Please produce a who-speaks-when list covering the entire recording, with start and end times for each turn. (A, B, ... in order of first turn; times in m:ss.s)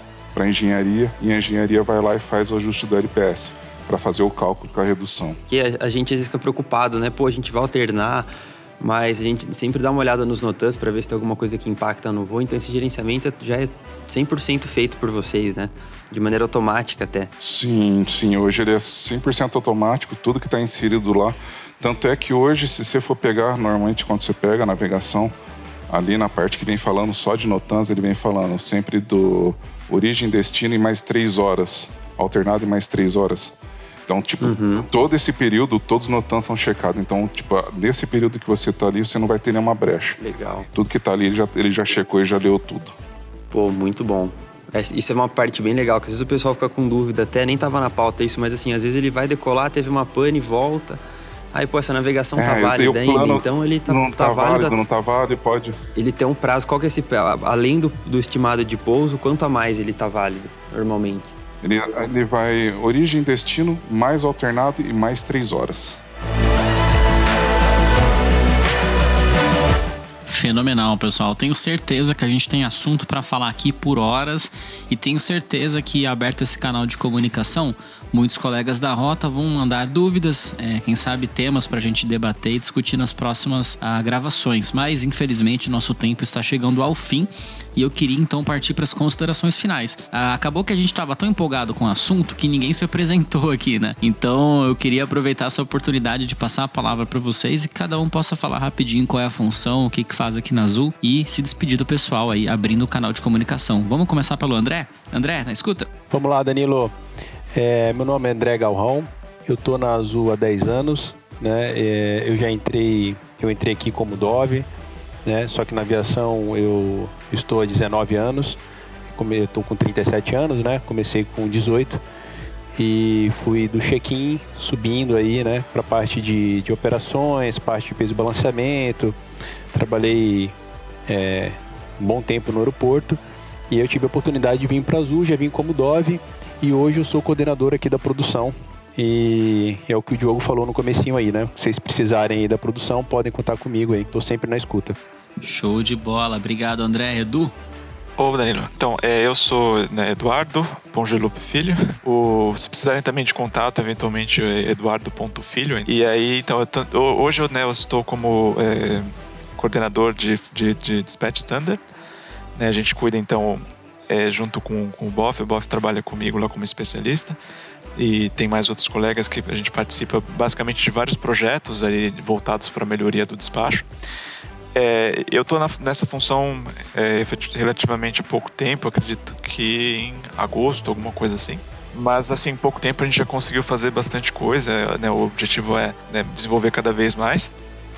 0:00.3-0:05.4 A
0:05.5-0:17.3 B
0:17.4-0:25.3 A
0:25.9-0:40.2 A
0:34.4-0:34.9 B
0:40.2-0:40.7 B
0:40.7-0:42.9 A
0:43.5-0:51.0 B
0:51.5-0:54.8 B
0:52.4-0:55.8 A
0:55.9-1:01.3 B
1:01.6-1:06.0 A
1:10.3-1:45.9 C
1:46.1-1:46.9 D
1:47.5-1:54.6 D
1:55.2-1:58.6 D
1:59.1-2:02.0 D
2:02.8-2:09.1 D
2:09.7-2:10.5 D
2:11.1-2:13.2 D
2:13.7-2:25.0 D
2:25.4-2:27.5 C
2:28.2-2:41.8 E
2:42.6-2:47.4 E
2:48.0-2:53.8 E
2:54.7-3:07.5 E